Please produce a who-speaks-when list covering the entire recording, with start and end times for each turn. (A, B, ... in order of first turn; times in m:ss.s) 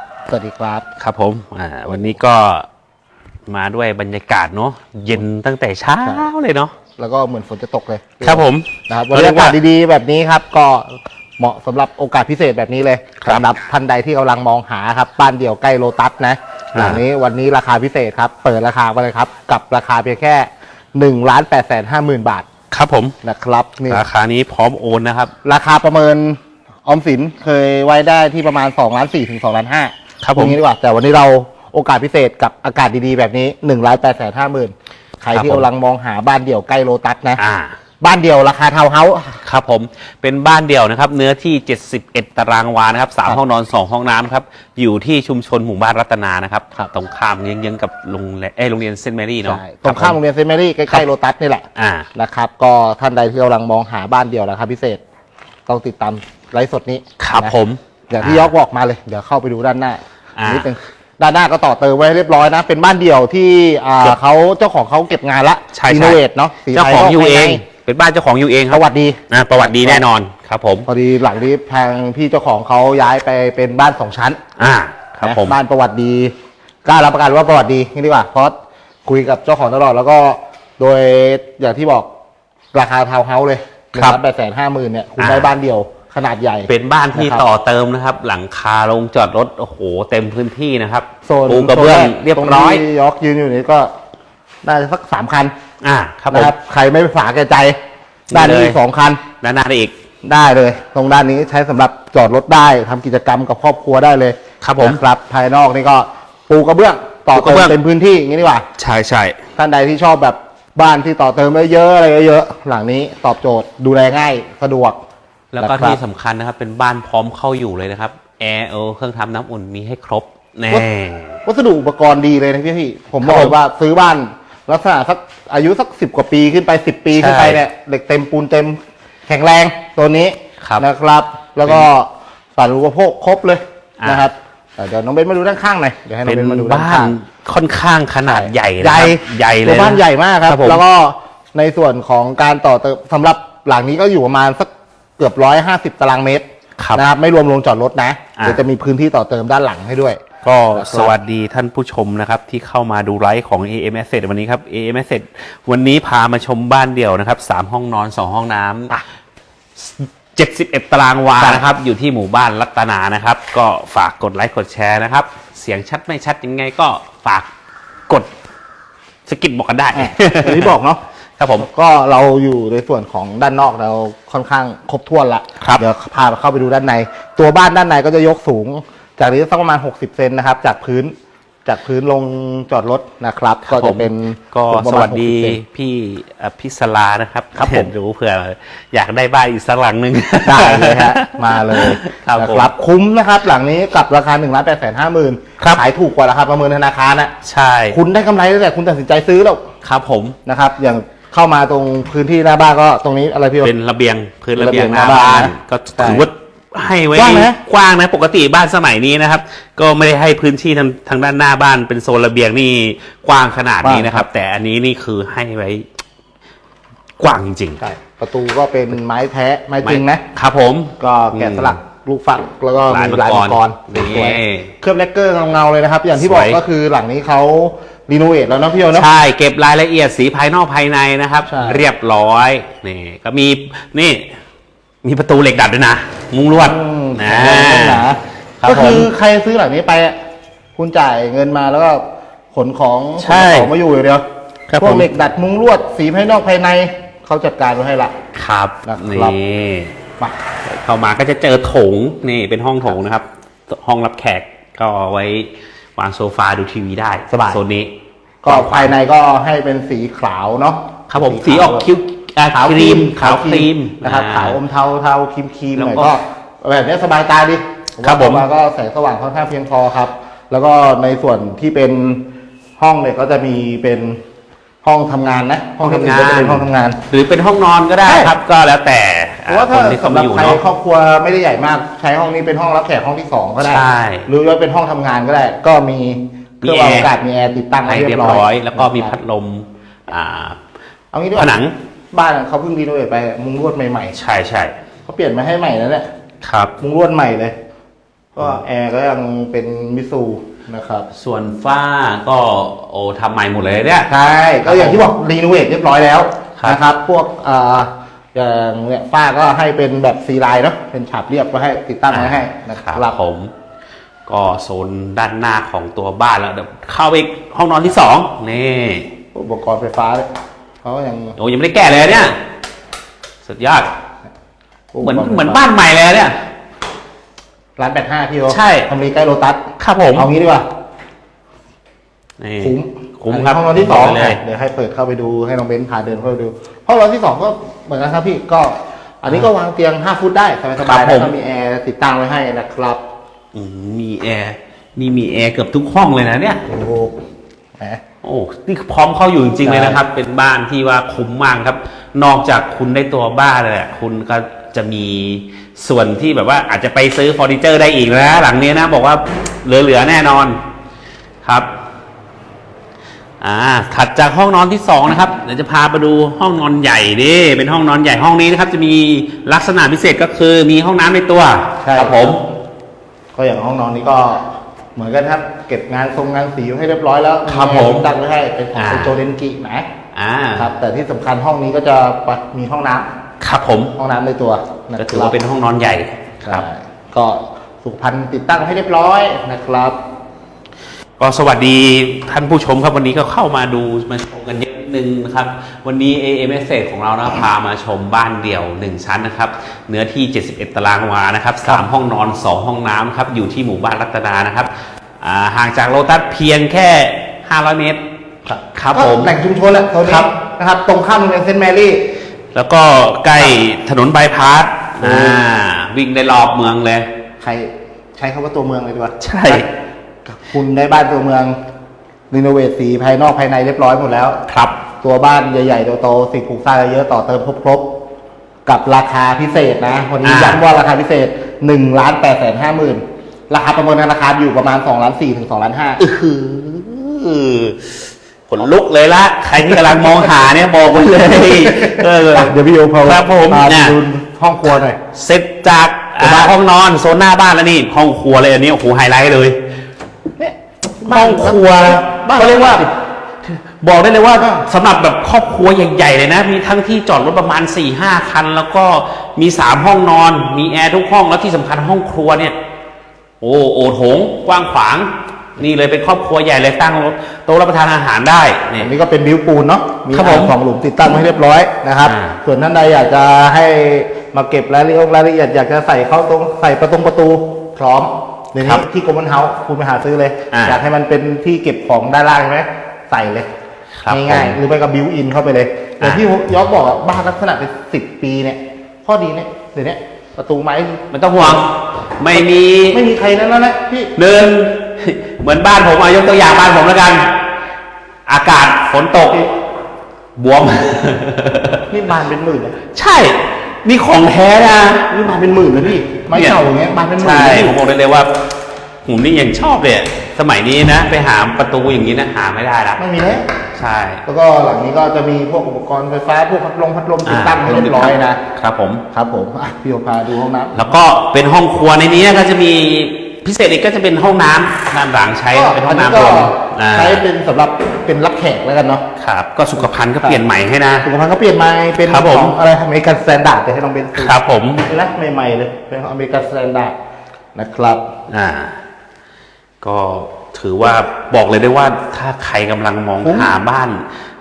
0:00.3-0:00.8 A
0:01.0-0:02.7 B
0:01.9-0:02.2 A
0:03.5-0:06.8 B
0:06.0-0:06.3 A
0:07.0-0:22.5 A
0:08.2-0:09.6 B
0:13.2-0:13.5 B
0:16.7-0:17.0 B
0:22.7-0:23.2 B
0:23.2-0:24.0 A
0:23.9-0:25.3 B
0:25.4-0:37.4 A
0:30.2-0:30.6 B
0:35.3-0:35.7 B
0:37.4-0:37.8 B
0:38.0-0:39.4 A
0:39.4-0:50.2 B
0:49.4-0:55.0 A
0:51.8-0:52.1 B
0:55.7-0:57.5 A
0:57.2-0:58.5 B
0:58.1-1:07.6 A
1:00.4-1:00.7 B
1:05.7-1:06.2 B
1:06.7-1:10.9 B
1:08.7-1:10.0 A
1:10.8-1:14.4 A
1:14.6-1:15.6 B
1:15.2-1:16.3 A
1:16.8-1:18.5 A
1:19.0-1:22.1 A
1:22.7-1:27.4 A
1:25.2-1:25.5 B
1:26.7-1:32.8 B
1:31.2-1:33.9 A
1:34.6-1:35.5 A
1:35.8-1:36.5 B
1:36.3-1:37.8 A
1:38.3-1:38.8 B
1:38.3-1:39.2 A
1:39.4-1:39.9 B
1:40.2-1:48.6 A
1:44.6-1:45.0 B
1:47.3-1:47.8 B
1:48.8-1:49.4 B
1:49.6-1:55.0 A
1:55.5-2:01.4 B
1:55.6-1:56.0 A
2:01.4-2:17.2 A
2:03.2-2:03.5 B
2:07.2-2:07.6 B
2:14.0-2:14.3 B
2:16.2-2:20.8 B
2:18.2-2:30.2 A
2:26.8-2:27.0 B
2:28.4-2:28.6 B
2:30.4-2:39.0 B
2:30.7-2:31.2 A
2:39.8-2:47.5 B
2:41.4-2:41.6 A
2:49.3-2:50.7 B
2:49.9-2:51.0 A
2:51.4-2:51.7 B
2:51.6-3:01.1 A
2:55.6-2:55.8 B
3:01.6-3:05.6 A
3:03.6-3:12.7 B
3:07.6-3:07.9 A
3:10.4-3:17.3 A
3:17.4-3:18.0 B
3:17.9-3:19.6 A
3:19.8-3:20.4 B
3:20.4-3:23.7 A
3:23.6-3:35.8 B
3:24.6-3:26.3 A
3:27.1-3:27.6 A
3:33.8-3:34.3 A
3:37.2-3:37.8 B
3:37.8-3:40.2 A
3:39.8-3:41.8 B
3:41.0-3:49.1 A
3:42.9-3:44.7 B
3:46.2-3:46.6 B
3:48.9-3:54.3 B
3:51.4-3:51.9 A
3:55.0-3:59.1 B
3:56.5-4:00.2 A
4:00.8-4:02.0 A
4:02.5-4:04.2 A
4:03.2-4:03.7 B
4:04.7-4:05.1 B
4:04.8-4:08.1 A
4:08.3-4:10.0 B
4:08.8-4:09.4 A
4:10.6-4:17.9 B
4:17.3-4:17.6 A
4:18.4-4:19.0 B
4:18.4-4:21.9 A
4:21.1-4:24.6 B
4:22.5-4:34.2 A
4:25.8-4:26.1 B
4:28.0-4:28.4 B
4:34.8-4:37.0 A
4:35.8-4:40.6 B
4:38.0-4:38.4 A
4:39.5-4:49.2 A
4:43.6-4:44.3 B
4:46.6-4:47.1 B
4:47.8-4:50.6 B
4:51.1-4:51.6 A
4:51.3-4:51.7 B
4:52.1-4:54.2 A
4:54.1-4:54.7 B
4:55.0-4:56.1 A
4:56.4-4:56.7 B
4:56.8-4:57.5 A
4:58.3-5:01.0 A
5:01.1-5:04.1 B
5:04.1-5:13.2 A
5:04.6-5:05.1 B
5:12.1-5:13.5 B
5:14.3-5:19.1 B
5:19.3-5:20.3 A
5:20.8-5:21.4 A
5:21.4-5:22.4 B
5:23.4-5:23.9 B
5:24.9-5:25.6 A
5:25.0-5:26.4 B
5:27.8-5:30.6 A
5:28.5-5:28.9 B
5:29.8-5:30.3 B
5:32.4-5:34.4 B
5:32.6-5:43.0 A
5:40.8-5:41.3 B
5:43.5-5:46.6 B
5:46.6-5:47.2 A
5:48.2-6:00.6 B
5:49.6-5:50.0 A
6:01.4-6:01.7 B
6:03.4-6:12.4 B
6:11.8-6:12.4 A
6:13.3-6:19.9 A
6:17.4-6:18.1 B
6:18.7-6:19.2 B
6:20.1-6:20.7 B
6:20.5-6:23.1 A
6:23.4-6:23.9 B
6:23.9-6:25.4 A
6:25.0-6:26.6 B
6:26.4-6:30.0 A
6:31.2-6:48.0 B
6:48.4-6:52.0 A
6:48.7-6:49.4 B
6:50.0-6:50.3 B
6:52.5-6:57.1 B
6:55.0-6:55.4 A
6:57.4-6:59.7 A
6:59.2-6:59.6 B
7:00.2-7:01.6 A
7:02.3-7:04.4 A
7:04.5-7:04.8 B
7:05.0-7:07.9 A
7:08.6-7:16.0 A
7:10.2-7:10.6 B
7:16.0-7:24.0 B
7:19.8-7:20.1 A
7:21.2-7:25.0 A
7:25.1-7:29.6 B
7:26.2-7:26.6 A
7:30.4-7:32.9 A
7:31.0-7:42.6 B
7:34.4-7:34.6 A
7:43.4-7:48.9 B
7:48.8-8:03.5 A
7:50.1-7:50.5 B
7:52.0-7:52.4 B
8:00.5-8:00.8 B
8:04.0-8:04.6 B
8:04.1-8:11.6 A
8:06.0-8:06.2 B
8:11.1-8:13.1 B
8:12.3-8:14.2 A
8:14.2-8:17.4 B
8:18.3-8:19.4 B
8:19.2-8:19.5 A
8:20.4-8:21.8 B
8:21.9-8:22.8 A
8:22.9-8:25.7 B
8:25.3-8:27.8 A
8:26.3-8:26.6 B
8:27.2-8:28.3 B
8:29.0-8:33.0 B
8:33.0-8:33.5 A
8:33.7-8:34.2 B
8:34.2-8:38.4 A
8:37.2-8:39.0 B
8:39.1-8:40.8 A
8:40.7-8:47.2 B
8:45.5-8:49.0 A
8:49.2-8:51.1 B
8:51.0-8:56.9 A
8:52.0-8:52.6 B
8:54.2-8:54.8 B
8:57.5-8:58.1 A
8:58.3-8:58.8 B
8:59.8-9:04.0 B
9:03.2-9:03.5 A